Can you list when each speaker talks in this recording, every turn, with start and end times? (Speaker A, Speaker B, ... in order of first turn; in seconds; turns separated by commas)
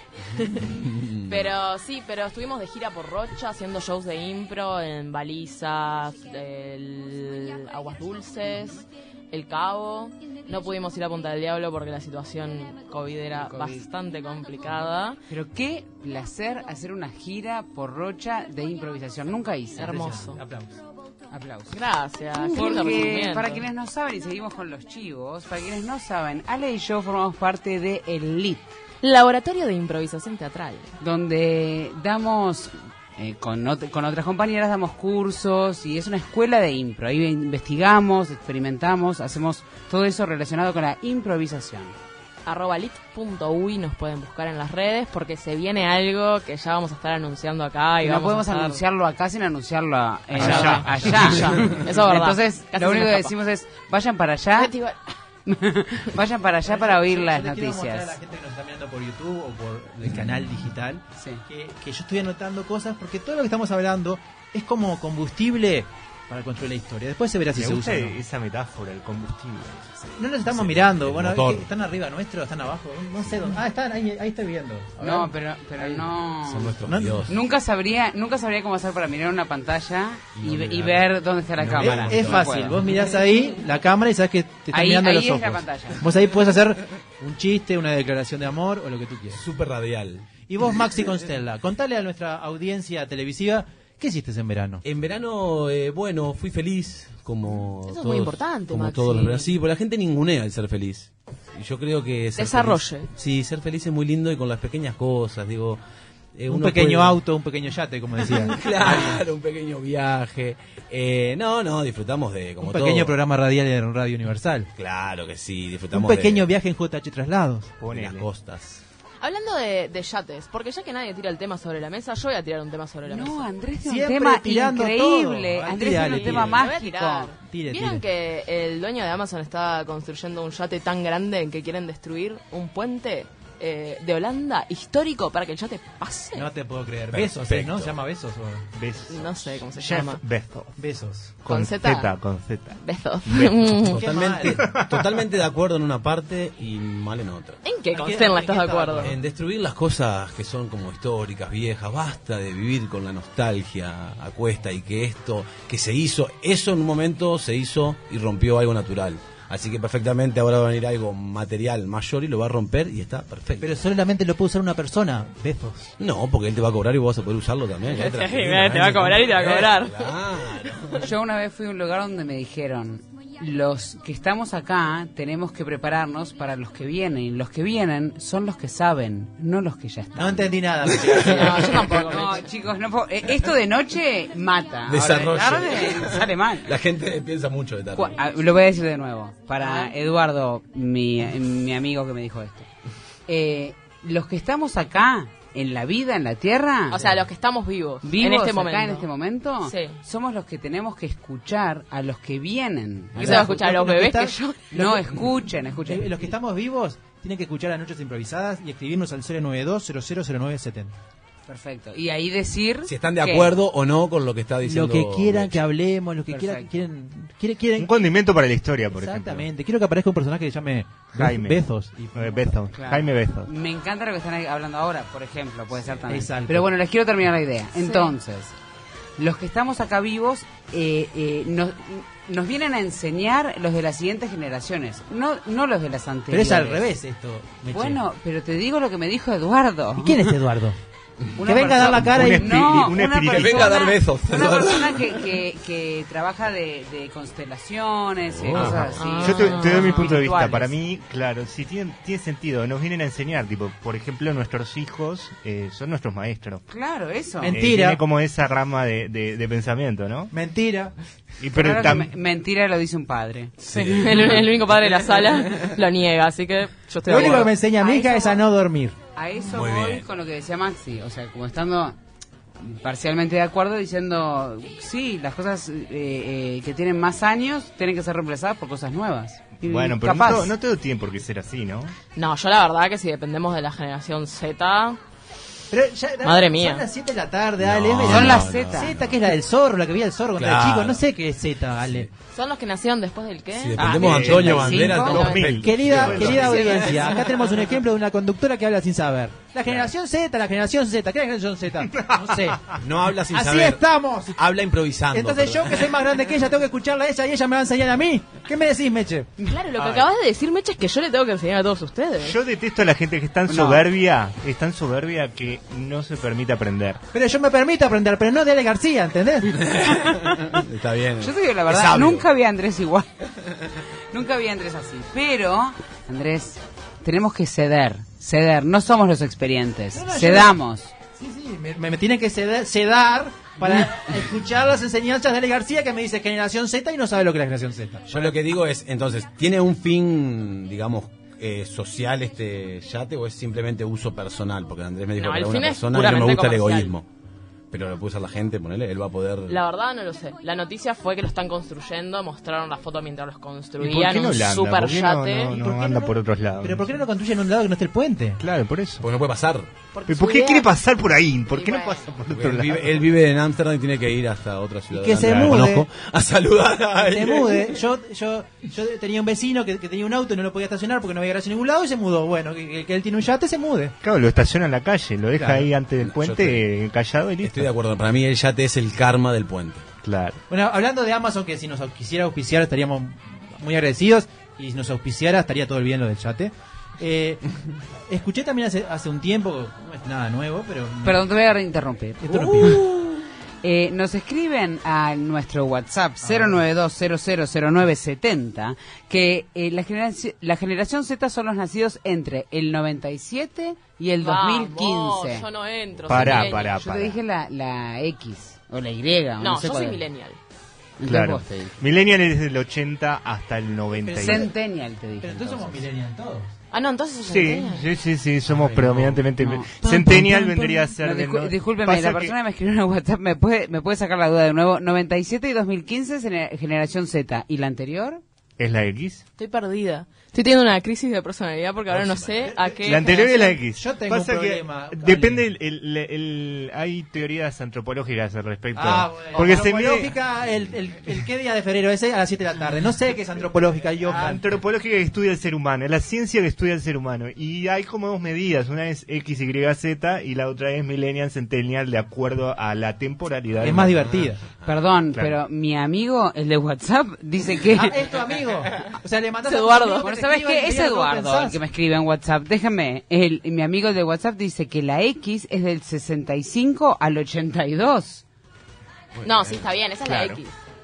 Speaker A: 0.3-15.2, Speaker B: 0.6-1.5, Speaker C: 13.3-13.8, Speaker C: 15.3-19.9, Speaker A: 19.8-20.4, Speaker D: 19.8-20.8, Speaker C: 21.3-21.8, Speaker A: 21.7-23.6, Speaker C: 22.4-28.7, Speaker A: 29.0-30.9, Speaker C: 31.0-42.0, Speaker A: 42.4-48.8, Speaker C: 48.0-54.7, Speaker A: 50.4-53.3, Speaker E: 50.4-51.4, Speaker A: 54.6-55.1, Speaker C: 55.5-58.2, Speaker D: 56.6-68.2, Speaker C: 61.1-61.4, Speaker E: 67.5-70.0, Speaker D: 70.2-75.3, Speaker B: 70.4-71.7, Speaker C: 75.0-82.7, Speaker B: 76.4-77.4, Speaker D: 76.8-77.3, Speaker B: 80.3-81.0, Speaker B: 81.5-82.8, Speaker D: 81.8-89.4, Speaker C: 84.7-86.0, Speaker B: 89.3-90.3, Speaker D: 90.5-94.8, Speaker B: 94.8-105.8, Speaker A: 97.9-99.5, Speaker A: 102.3-103.1, Speaker B: 106.3-107.2, Speaker D: 106.5-109.2, Speaker B: 108.2-113.1, Speaker D: 112.6-114.7, Speaker B: 114.8-116.5, Speaker D: 115.9-117.7, Speaker E: 117.8-118.3, Speaker B: 117.9-118.8, Speaker A: 119.2-123.4, Speaker C: 123.1-127.3, Speaker D: 123.8-126.6, Speaker A: 125.8-136.5, Speaker D: 127.4-128.0, Speaker D: 136.3-138.7, Speaker B: 137.1-138.0, Speaker E: 138.7-140.7, Speaker A: 139.1-140.2, Speaker D: 140.8-141.3, Speaker E: 141.4-142.8, Speaker A: 141.5-142.1, Speaker A: 142.8-144.0, Speaker B: 143.3-147.6, Speaker D: 143.9-144.7, Speaker E: 144.5-145.1, Speaker A: 147.6-149.1, Speaker D: 147.9-149.2, Speaker B: 149.0-163.8, Speaker D: 163.6-165.9, Speaker B: 166.0-171.1, Speaker A: 167.8-170.1, Speaker C: 171.0-180.6, Speaker D: 180.1-181.8, Speaker A: 181.1-182.5, Speaker C: 181.9-186.7, Speaker B: 184.9-188.2, Speaker D: 185.0-185.3, Speaker C: 187.9-192.7, Speaker A: 189.6-189.9, Speaker C: 193.3-197.1, Speaker A: 196.9-199.1, Speaker C: 198.0-203.5, Speaker A: 199.6-200.0, Speaker D: 203.2-210.9, Speaker A: 203.2-204.6, Speaker C: 204.7-206.2, Speaker C: 211.5-213.5, Speaker B: 212.8-215.6, Speaker D: 214.6-217.9, Speaker C: 216.3-216.7, Speaker E: 217.8-219.4, Speaker D: 218.9-222.7, Speaker E: 221.1-221.6, Speaker E: 222.1-223.5, Speaker C: 222.7-228.5, Speaker D: 226.1-226.7, Speaker A: 227.8-228.1, Speaker C: 229.2-236.9, Speaker D: 236.3-238.0, Speaker C: 237.7-240.3, Speaker D: 239.9-240.8, Speaker C: 241.4-250.7, Speaker D: 241.4-242.6, Speaker E: 241.9-243.8, Speaker B: 243.2-245.3, Speaker B: 248.3-249.0, Speaker E: 248.6-256.6, Speaker A: 248.9-250.1, Speaker C: 256.7-257.6, Speaker D: 257.4-258.0, Speaker E: 257.5-260.3, Speaker D: 260.3-260.9, Speaker E: 261.4-262.1, Speaker C: 261.5-263.5, Speaker B: 263.6-265.7, Speaker A: 263.8-268.1, Speaker D: 267.0-268.9, Speaker C: 267.8-268.4, Speaker C: 269.1-272.0, Speaker B: 269.5-270.0, Speaker C: 272.6-280.5, Speaker E: 279.6-281.9, Speaker A: 282.1-285.0, Speaker D: 285.7-292.1, Speaker A: 286.2-286.8, Speaker B: 287.6-289.2, Speaker C: 288.1-288.9, Speaker B: 290.4-291.0, Speaker B: 291.8-292.1, Speaker A: 292.3-295.6, Speaker B: 293.5-297.2, Speaker E: 293.8-296.7, Speaker C: 294.6-295.2, Speaker D: 295.6-302.8, Speaker A: 296.2-297.4, Speaker E: 301.9-302.2, Speaker B: 302.8-303.8, Speaker D: 303.3-304.4, Speaker B: 304.3-306.0, Speaker D: 305.1-309.3, Speaker A: 309.4-312.4, Speaker E: 309.8-310.1, Speaker E: 312.2-317.0, Speaker C: 313.5-313.8, Speaker D: 317.1-319.6, Speaker B: 319.5-322.2, Speaker C: 321.2-323.1, Speaker C: 324.1-330.9, Speaker D: 329.9-330.6, Speaker D: 331.1-338.3, Speaker B: 338.1-347.1, Speaker A: 345.2-346.9, Speaker B: 347.7-349.6, Speaker A: 349.5-355.8, Speaker E: 353.8-356.9, Speaker D: 355.6-358.4, Speaker E: 358.4-359.1, Speaker B: 359.0-359.7, Speaker A: 359.9-360.7, Speaker E: 360.1-363.0, Speaker A: 361.5-362.1, Speaker B: 362.3-367.8, Speaker D: 364.9-365.9, Speaker E: 365.2-365.7, Speaker D: 367.0-373.9, Speaker E: 374.0-377.7, Speaker D: 375.4-375.7, Speaker B: 376.0-376.6, Speaker B: 377.4-379.9, Speaker E: 380.0-380.4, Speaker D: 380.5-387.4, Speaker D: 388.0-391.3, Speaker C: 391.0-392.9, Speaker D: 392.2-392.8, Speaker B: 392.4-393.1, Speaker C: 393.6-405.5, Speaker D: 396.2-396.6, Speaker A: 404.2-406.8, Speaker E: 406.1-407.2, Speaker C: 406.3-410.0, Speaker A: 409.4-410.4, Speaker C: 411.0-411.8, Speaker E: 411.0-414.5, Speaker D: 414.0-414.5, Speaker C: 414.1-415.8, Speaker D: 415.2-416.5, Speaker A: 416.7-417.9, Speaker E: 417.2-422.4, Speaker D: 418.6-418.9, Speaker C: 419.4-428.2, Speaker E: 428.6-429.2, Speaker A: 429.4-433.5, Speaker B: 431.9-432.5, Speaker D: 432.4-435.4, Speaker E: 432.9-440.1, Speaker D: 438.7-444.5, Speaker E: 444.1-454.0, Speaker D: 453.6-454.4, Speaker B: 453.6-454.8, Speaker C: 454.6-458.0, Speaker E: 455.1-455.4, Speaker D: 457.7-461.6, Speaker A: 459.5-460.1, Speaker C: 460.0-468.2, Speaker B: 469.1-469.7, Speaker A: 469.2-470.5, Speaker E: 470.0-470.4